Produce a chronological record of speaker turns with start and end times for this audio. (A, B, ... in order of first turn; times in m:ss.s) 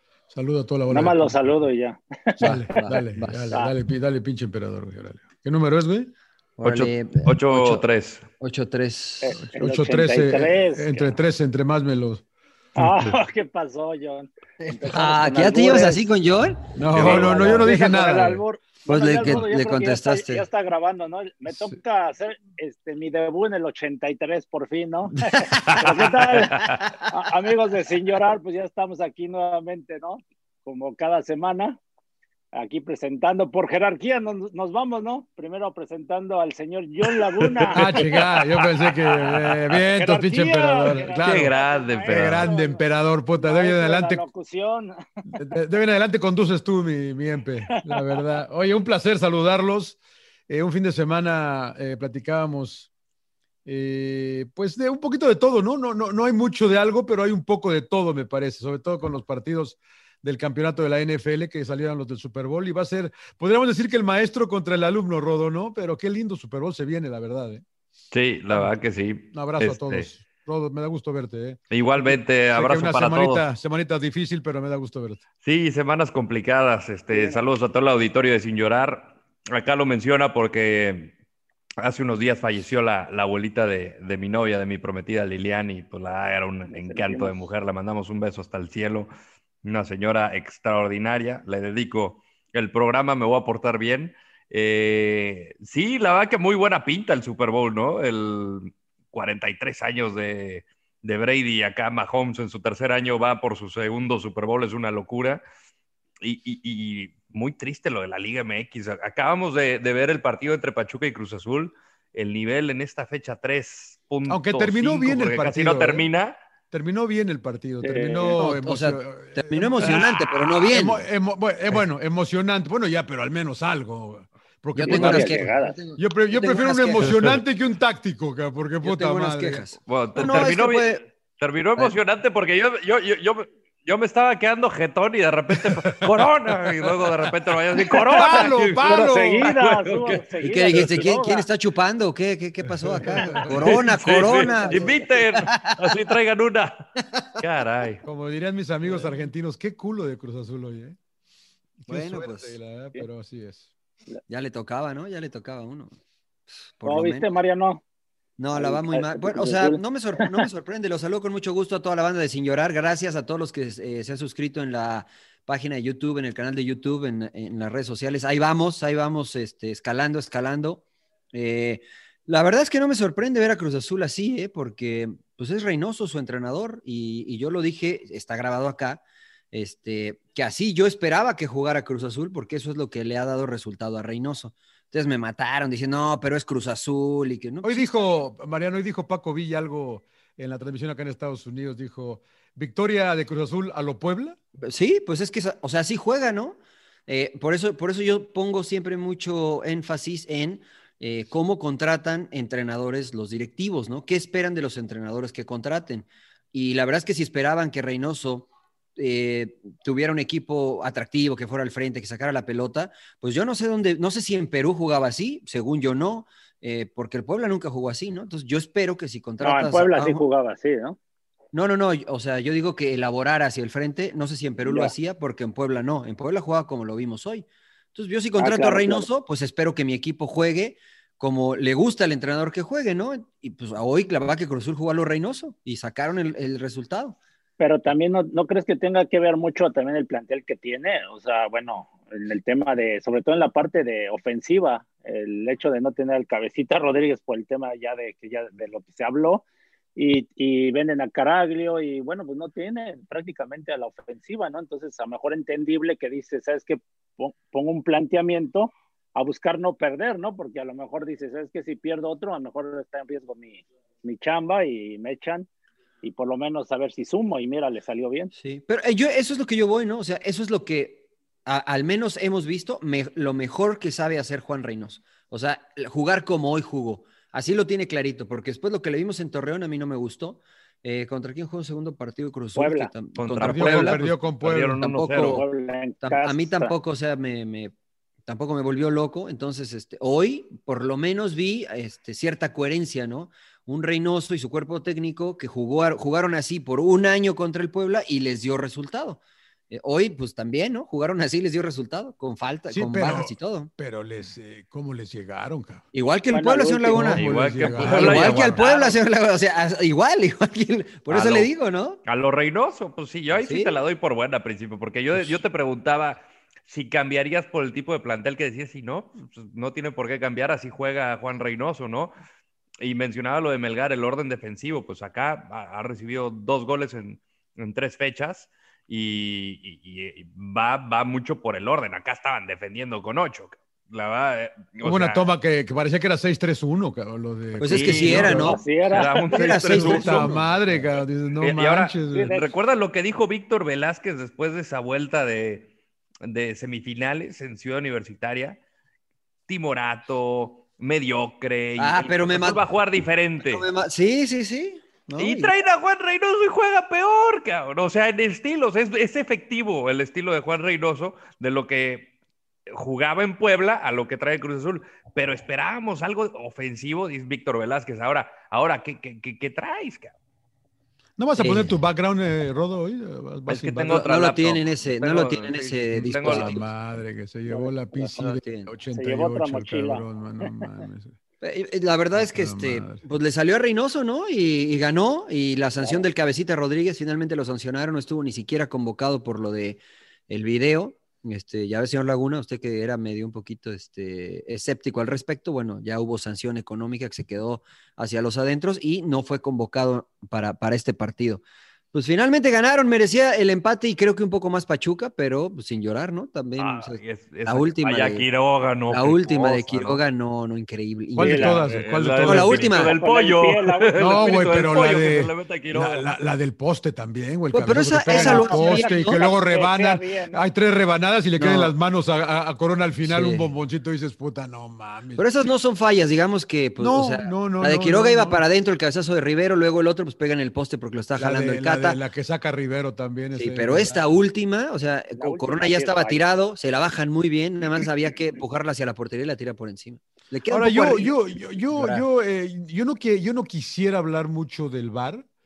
0:00.3-0:01.6 A
0:00.9-0:02.8 B
0:02.4-0:06.1 A
0:02.4-0:03.6 C
0:06.6-0:07.8 C
0:06.6-0:08.2 D
0:08.4-0:09.4 C
0:09.2-0:11.2 B
0:09.4-0:12.2 A
0:12.8-0:16.0 B
0:14.6-0:17.6 C
0:16.8-0:18.4 A
0:16.9-0:17.3 D
0:17.0-0:31.8 B
0:18.8-0:20.4 C
0:25.2-0:25.8 C
0:25.6-0:26.8 D
0:26.8-0:27.1 C
0:32.5-0:38.6 B
0:37.0-0:39.4 D
0:37.7-0:41.5 A
0:39.9-0:42.8 B
0:40.9-0:42.5 D
0:42.1-0:44.2 A
0:43.4-0:45.4 B
0:45.3-0:50.0 A
0:47.8-0:48.2 B
0:50.5-0:52.9 A
0:53.6-1:07.6 A
1:08.1-1:10.1 D
1:09.3-1:15.2 A
1:11.7-1:13.4 D
1:15.4-1:21.1 D
1:17.1-1:17.4 B
1:21.8-1:29.1 D
1:26.7-1:27.4 B
1:29.6-1:45.4 D
1:46.2-1:56.4 D
1:54.3-1:56.1 A
1:56.7-2:09.6 A
1:57.8-1:58.4 B
1:58.3-2:01.0 C
2:04.8-2:07.3 C
2:04.8-2:05.8 B
2:07.0-2:07.4 D
2:08.8-2:11.0 C
2:09.9-2:20.2 D
2:15.5-2:17.3 A
2:17.8-2:21.4 B
2:18.1-2:19.5 A
2:20.4-2:26.0 C
2:22.6-2:23.8 A
2:23.5-2:28.0 D
2:24.2-2:25.2 B
2:27.1-2:27.4 C
2:28.0-2:31.0 A
2:31.8-2:33.7 A
2:31.9-2:32.6 C
2:34.3-2:36.0 C
2:36.8-2:37.3 C
2:36.8-2:37.8 B
2:38.4-2:50.8 C
2:38.5-2:40.5 B
2:51.3-3:07.8 C
3:07.6-3:14.4 A
3:14.6-3:40.2 C
3:39.4-3:41.0 B
3:41.5-3:57.2 C
3:44.6-3:44.9 B
3:48.4-3:49.0 B
3:57.6-4:09.4 B
4:10.0-4:25.5 B
4:26.0-4:28.3 B
4:28.3-4:44.1 C
4:42.6-4:42.9 B
4:43.2-4:45.4 D
4:43.4-4:45.0 A
4:44.8-4:45.4 C
4:45.2-4:46.7 B
4:46.0-4:47.7 C
4:48.2-4:59.2 C
4:59.7-5:03.7 C
5:02.7-5:05.8 A
5:05.9-5:12.0 C
5:06.3-5:07.0 B
5:06.9-5:08.6 A
5:07.0-5:09.0 D
5:11.1-5:11.5 D
5:12.0-5:22.1 D
5:13.3-5:13.7 C
5:22.8-5:35.2 D
5:34.8-5:38.6 A
5:37.6-5:40.8 C
5:37.7-5:45.7 D
5:38.3-5:39.3 B
5:39.5-5:42.4 A
5:42.1-5:42.4 B
5:46.2-5:48.6 D
5:49.5-5:53.7 D
5:51.8-5:52.6 C
5:53.4-5:55.5 C
5:55.2-6:02.1 D
6:02.7-6:10.1 D
6:11.2-6:14.0 A
6:11.4-6:11.7 C
6:13.5-6:16.6 D
6:13.9-6:16.6 C
6:15.9-6:21.1 A
6:17.4-6:18.1 B
6:18.1-6:18.7 C
6:18.9-6:20.7 B
6:21.4-6:48.2 C
6:22.1-6:23.0 A
6:46.6-6:50.0 D
6:48.9-6:51.6 C
6:51.1-6:52.8 A
6:51.2-6:51.6 B
6:51.6-6:56.1 D
6:52.2-6:53.0 C
6:52.8-6:54.3 B
6:54.0-7:05.2 A
6:57.5-6:59.2 C
6:58.1-7:00.4 B
7:01.4-7:01.7 C
7:03.0-7:03.5 C
7:05.2-7:12.0 C
7:06.8-7:08.4 A
7:11.2-7:14.0 A
7:13.4-7:21.1 C
7:15.2-7:16.2 B
7:20.5-7:25.3 A
7:21.7-7:22.0 C